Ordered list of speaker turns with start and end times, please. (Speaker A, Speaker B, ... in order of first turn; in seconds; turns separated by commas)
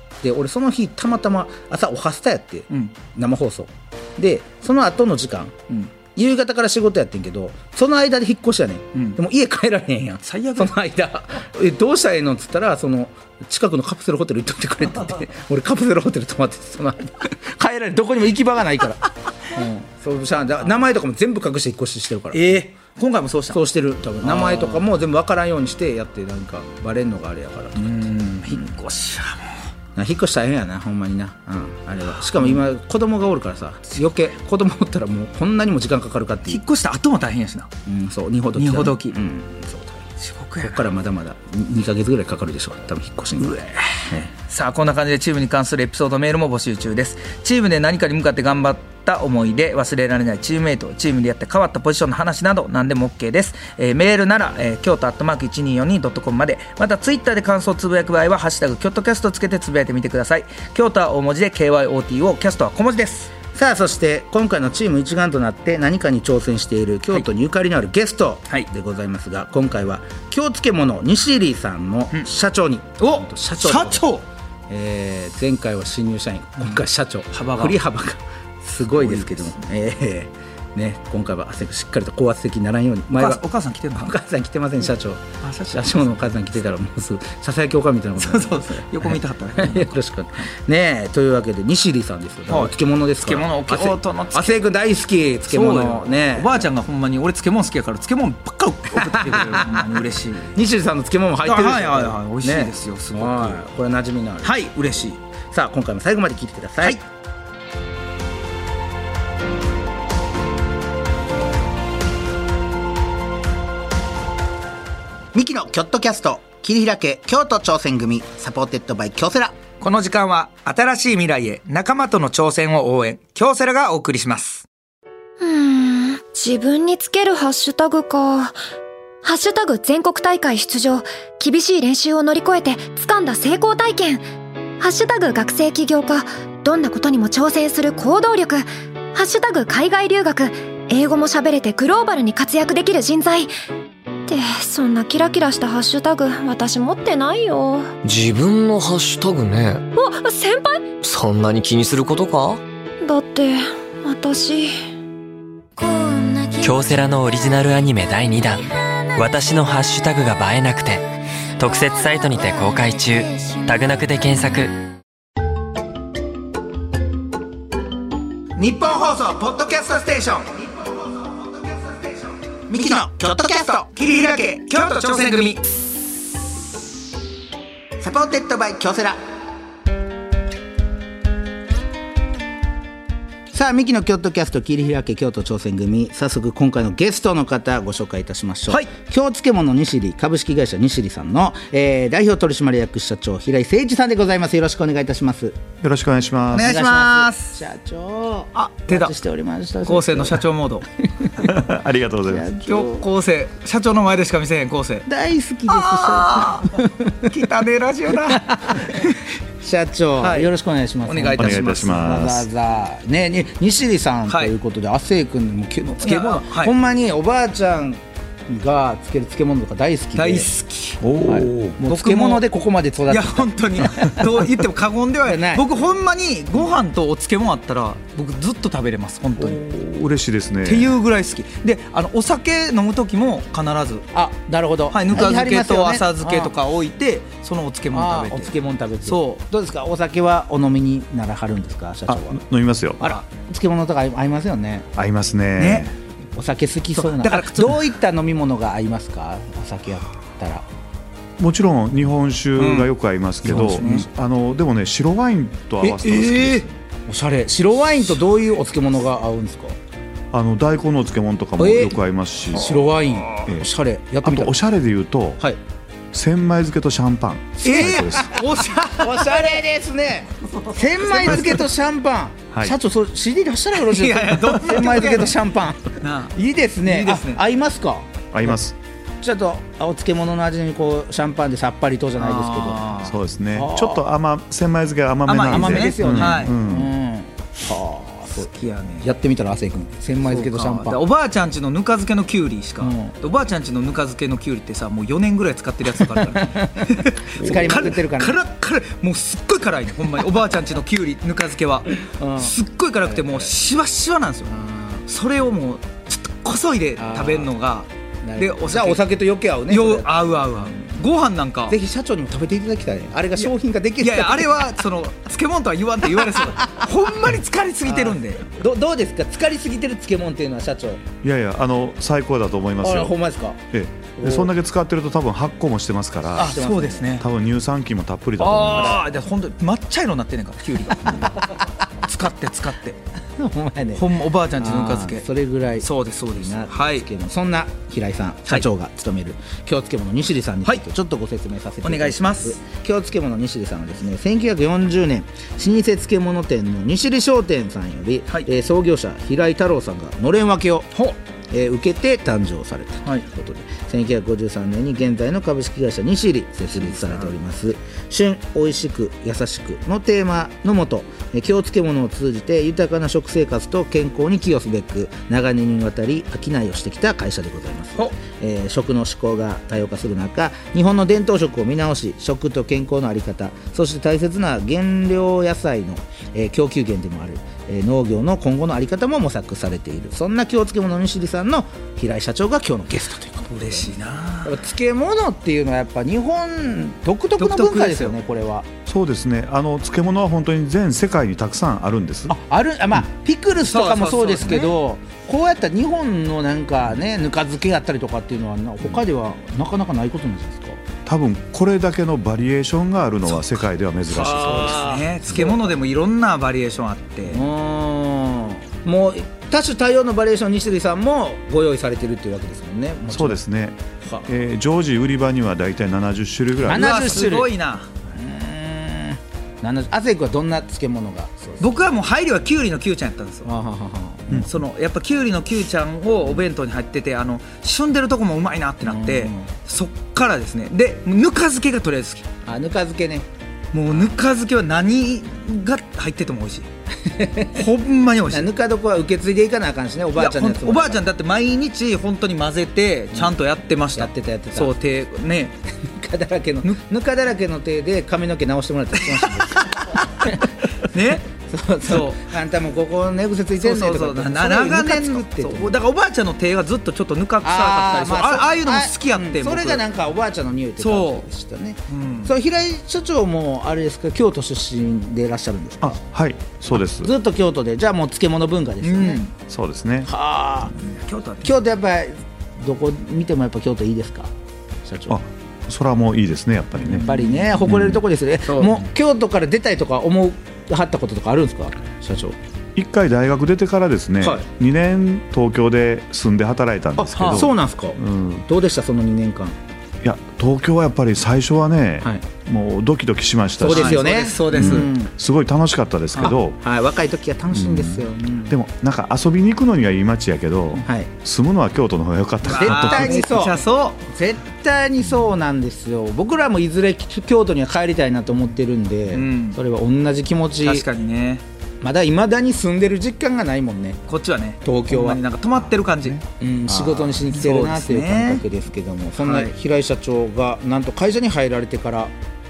Speaker A: 0.2-5.6, Speaker A: 6.1-22.6, Speaker B: 10.2-10.7, Speaker B: 22.3-23.6, Speaker A: 23.5-28.0, Speaker B: 24.2-24.8, Speaker B: 27.8-29.6, Speaker A: 29.9-36.6, Speaker B: 32.4-32.6, Speaker B: 36.5-37.7, Speaker A: 37.9-40.0, Speaker B: 38.5-39.1, Speaker B: 40.2-40.9, Speaker A: 40.6-44.3, Speaker B: 43.4-63.3, Speaker A: 63.5-74.1, Speaker B: 73.0-74.2, Speaker A: 74.7-83.4, Speaker B: 77.3-77.8, Speaker B: 79.0-79.5, Speaker B: 83.1-84.1, Speaker A: 84.0-96.5, Speaker B: 85.4-86.0, Speaker B: 88.2-89.9, Speaker B: 92.5-94.6, Speaker B: 95.5-100.5, Speaker A: 98.9-100.0, Speaker A: 100.5-104.7, Speaker B: 101.4-103.6, Speaker B: 104.4-105.2, Speaker A: 105.5-107.0, Speaker A: 115.3-119.6, Speaker B: 119.8-124.7, Speaker C: 125.4-128.6, Speaker C: 129.2-134.2, Speaker C: 134.8-143.5, Speaker C: 144.3-147.9, Speaker D: 148.0-149.8, Speaker C: 149.9-150.9, Speaker D: 151.0-152.6, Speaker C: 153.0-154.8, Speaker D: 156.0-161.0, Speaker D: 161.6-164.7, Speaker A: 168.6-170.6, Speaker A: 172.7-174.0, Speaker B: 173.9-175.6, Speaker A: 178.0-179.2, Speaker A: 183.5-195.6, Speaker E: 195.8-196.8, Speaker B: 196.5-197.6, Speaker A: 196.5-200.4, Speaker B: 198.5-199.1, Speaker B: 199.8-200.8, Speaker A: 201.1-201.5, Speaker E: 201.4-202.5, Speaker A: 202.2-203.0, Speaker B: 202.7-205.1, Speaker A: 205.1-207.3, Speaker B: 205.7-209.2, Speaker A: 208.3-209.1, Speaker A: 209.6-220.5, Speaker B: 210.2-210.5, Speaker B: 211.1-212.0, Speaker E: 211.4-212.5, Speaker B: 216.0-216.7, Speaker B: 220.2-221.0, Speaker E: 221.0-221.8, Speaker A: 221.2-224.3, Speaker B: 221.9-222.4, Speaker B: 223.1-229.6, Speaker A: 225.2-225.6, Speaker E: 229.4-230.9, Speaker B: 230.6-234.1, Speaker A: 234.1-236.5, Speaker B: 234.9-239.4, Speaker A: 237.9-242.4, Speaker E: 242.1-243.1, Speaker A: 243.0-244.9, Speaker E: 244.9-246.0, Speaker B: 245.6-245.9, Speaker A: 246.3-250.6, Speaker B: 247.0-247.8, Speaker E: 251.4-256.8, Speaker B: 252.6-252.9, Speaker A: 253.4-254.1, Speaker B: 253.5-254.1, Speaker A: 255.8-256.3, Speaker B: 256.0-256.6, Speaker A: 257.1-259.8, Speaker E: 260.3-262.9, Speaker A: 261.6-261.9, Speaker A: 262.5-264.5, Speaker E: 264.2-265.4, Speaker E: 266.1-268.3, Speaker A: 267.6-278.5, Speaker B: 267.6-269.5, Speaker B: 270.7-271.7, Speaker B: 273.8-275.5, Speaker B: 276.0-277.4, Speaker E: 278.3-278.8, Speaker A: 279.2-282.8, Speaker B: 282.2-283.2, Speaker E: 283.0-286.9, Speaker A: 283.5-284.0, Speaker B: 285.3-286.5, Speaker A: 285.5-291.0, Speaker B: 288.3-289.1, Speaker B: 290.2-304.5, Speaker A: 292.8-293.1, Speaker A: 296.2-298.4, Speaker E: 297.4-297.7, Speaker A: 302.2-303.5, Speaker A: 304.4-305.0, Speaker B: 305.1-309.0, Speaker A: 307.0-307.5, Speaker A: 308.2-310.9, Speaker B: 309.7-311.7, Speaker A: 311.7-314.6, Speaker B: 314.0-318.4, Speaker A: 317.9-321.0, Speaker E: 321.2-323.1, Speaker A: 322.8-323.6, Speaker E: 323.7-326.6, Speaker A: 324.1-324.5, Speaker B: 326.4-327.3, Speaker A: 326.4-327.1, Speaker E: 327.2-329.0, Speaker B: 328.4-333.0, Speaker A: 333.4-350.9, Speaker B: 333.9-335.3, Speaker B: 335.8-337.1, Speaker B: 341.8-342.6, Speaker A: 351.5-383.9, Speaker B: 356.7-357.3, Speaker B: 383.5-384.5, Speaker A: 384.4-388.7, Speaker B: 387.4-388.1, Speaker E: 388.9-392.4, Speaker A: 392.3-400.8, Speaker B: 393.6-394.7, Speaker E: 401.1-404.9, Speaker A: 404.1-405.7, Speaker B: 404.5-407.4, Speaker A: 407.3-413.4, Speaker E: 413.1-417.3, Speaker A: 416.6-417.5, Speaker B: 416.6-417.9, Speaker A: 418.1-421.7, Speaker B: 421.6-423.5, Speaker A: 423.4-424.5, Speaker B: 424.4-432.3, Speaker A: 428.8-429.5, Speaker A: 432.4-433.3, Speaker B: 433.7-436.7, Speaker A: 437.0-437.6, Speaker B: 437.5-438.5, Speaker A: 438.3-441.0, Speaker B: 440.2-445.6, Speaker A: 443.9-444.7, Speaker A: 445.9-455.7, Speaker B: 449.1-451.2, Speaker B: 451.8-452.2, Speaker B: 453.6-459.8, Speaker A: 457.4-466.0, Speaker B: 460.8-461.3, Speaker B: 461.9-462.3, Speaker E: 465.8-467.1, Speaker A: 466.7-469.2, Speaker B: 468.8-469.3, Speaker E: 469.5-470.1, Speaker A: 470.1-470.7, Speaker B: 470.8-471.5, Speaker A: 471.4-474.3, Speaker A: 474.8-475.2, Speaker E: 475.1-477.1, Speaker A: 476.9-482.4, Speaker B: 476.9-477.6, Speaker E: 477.7-478.0, Speaker B: 478.5-478.8, Speaker E: 482.8-488.4, Speaker A: 487.0-489.6, Speaker B: 487.1-487.5, Speaker E: 490.0-494.0, Speaker A: 493.6-495.1, Speaker B: 493.7-494.9, Speaker E: 494.5-496.6, Speaker A: 496.2-498.6, Speaker E: 497.5-503.2, Speaker A: 500.8-501.1, Speaker B: 502.5-504.0, Speaker A: 502.5-510.8, Speaker B: 509.1-509.6, Speaker B: 510.6-511.4, Speaker A: 511.8-514.0, Speaker B: 514.1-518.4, Speaker A: 514.6-515.2, Speaker E: 515.6-516.2, Speaker A: 516.4-522.1, Speaker B: 519.2-519.5